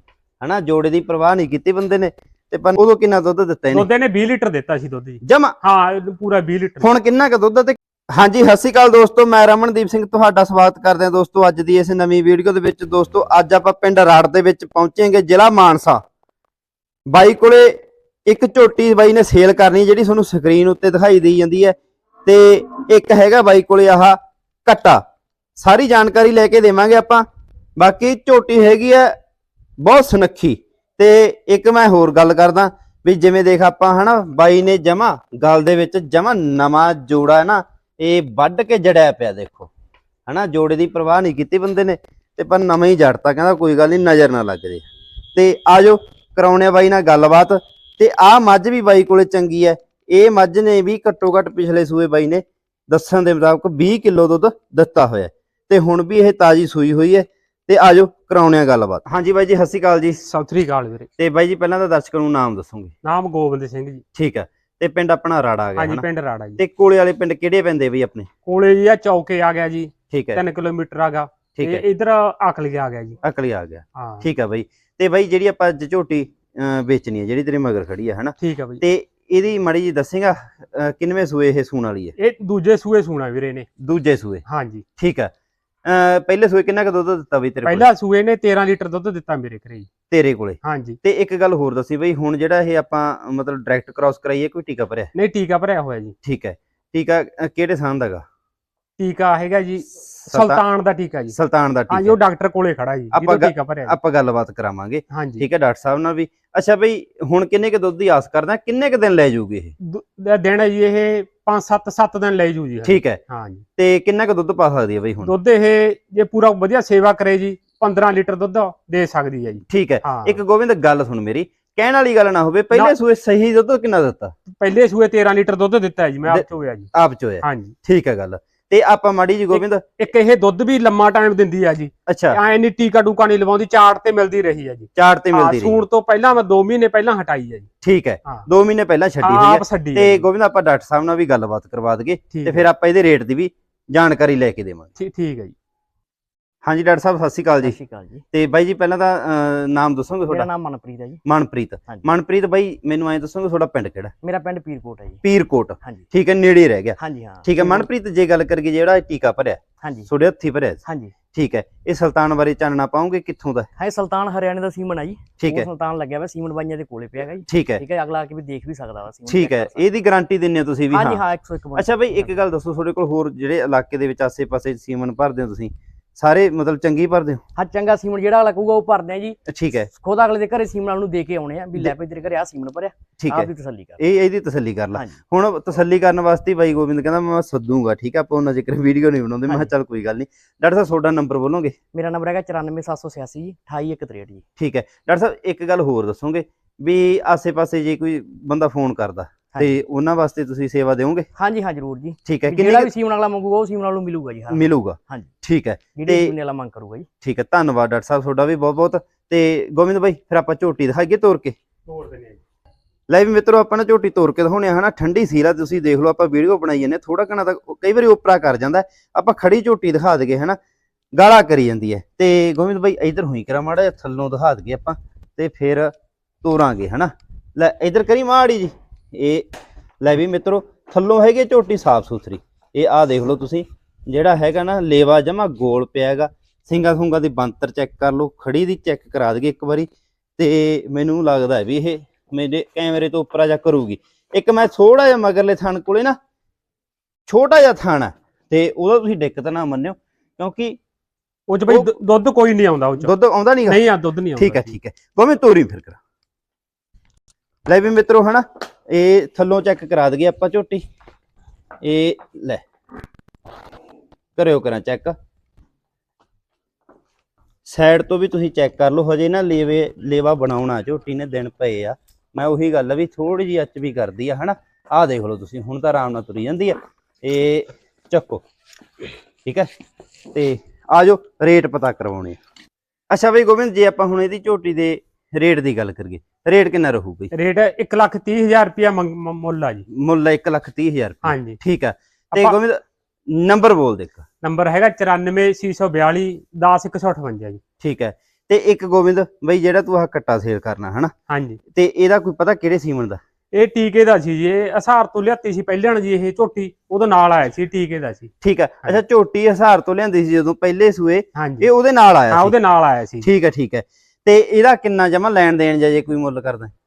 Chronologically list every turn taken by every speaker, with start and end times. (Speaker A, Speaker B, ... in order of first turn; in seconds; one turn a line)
Speaker A: 0.4-3.9
Speaker B: 3.7-6.9
Speaker A: 5.2-5.5
Speaker A: 6.8-16.0
Speaker A: 17.1-25.0
Speaker A: 25.6-27.2
Speaker A: 27.8-29.1
Speaker A: 29.8-39.7
Speaker A: 40.3-60.2
Speaker B: 60.2-61.1
Speaker A: 61.2-62.9
Speaker B: 63.0-64.0
Speaker A: 64.1-66.0
Speaker B: 65.8-66.6
Speaker A: 66.6-68.3
Speaker B: 68.5-73.2
Speaker A: 70.1-70.4
Speaker A: 71.5-71.8
Speaker A: 73.2-82.1
Speaker B: 74.0-74.3
Speaker B: 78.4-78.8
Speaker B: 82.2-83.7
Speaker A: 83.8-84.4
Speaker B: 84.5-84.8
Speaker A: 85.0-85.3
Speaker A: 85.8-87.9
Speaker B: 87.6-89.9
Speaker A: 90.1-95.1
Speaker B: 90.6-91.0
Speaker B: 95.1-96.1
Speaker A: 96.2-98.2
Speaker B: 99.0-101.3
Speaker A: 100.3-100.6
Speaker A: 101.3-102.2
Speaker B: 101.9-104.0
Speaker A: 103.1-109.7
Speaker B: 105.1-105.4
Speaker B: 109.8-113.6
Speaker A: 112.8-113.2
Speaker A: 113.8-115.3
Speaker B: 115.2-120.4
Speaker A: 119.7-124.3
Speaker B: 124.5-126.9
Speaker A: 126.3-129.8
Speaker B: 127.4-127.8
Speaker B: 129.5-137.7
Speaker A: 132.1-132.4
Speaker A: 134.9-135.8
Speaker A: 137.8-144.9
Speaker B: 139.2-140.2
Speaker B: 142.3-142.7
Speaker B: 145.0-145.5
Speaker A: 146.6-147.8
Speaker C: 147.6-148.2
Speaker A: 148.3-150.5
Speaker C: 150.2-151.2
Speaker A: 151.2-154.1
Speaker C: 154.2-155.2
Speaker A: 155.2-163.7
Speaker C: 155.8-156.1
Speaker C: 157.0-157.9
Speaker C: 159.8-160.1
Speaker C: 160.8-161.1
Speaker C: 163.8-169.9
Speaker A: 165.4-165.7
Speaker A: 167.5-167.8
Speaker A: 169.3-171.2
Speaker C: 170.9-172.4
Speaker A: 171.8-177.4
Speaker C: 177.6-179.4
Speaker A: 179.5-179.9
Speaker C: 179.9-184.0
Speaker A: 183.2-191.7
Speaker C: 184.9-185.2
Speaker C: 189.5-189.7
Speaker C: 191.9-194.4
Speaker A: 194.6-201.3
Speaker C: 199.5-199.8
Speaker C: 201.3-205.3
Speaker A: 202.3-202.9
Speaker A: 204.5-206.3
Speaker C: 205.9-207.1
Speaker A: 207.2-211.6
Speaker B: 211.9-212.4
Speaker A: 213.1-220.6
Speaker A: 221.1-229.5
Speaker A: 230.0-246.2
Speaker A: 247.3-250.8
Speaker B: 251.5-253.1
Speaker A: 253.0-253.8
Speaker B: 253.7-254.8
Speaker A: 254.4-256.0
Speaker A: 257.7-260.8
Speaker A: 261.8-262.6
Speaker A: 264.4-265.1
Speaker A: 267.6-278.4
Speaker A: 280.3-282.4
Speaker A: 283.1-287.3
Speaker B: 287.3-289.9
Speaker A: 289.9-294.2
Speaker B: 291.2-291.6
Speaker B: 292.3-292.6
Speaker B: 294.4-297.6
Speaker A: 297.8-301.1
Speaker B: 301.3-301.6
Speaker A: 301.7-303.2
Speaker B: 303.5-308.3
Speaker A: 308.4-312.5
Speaker B: 311.4-311.7
Speaker B: 312.3-313.3
Speaker A: 313.2-316.7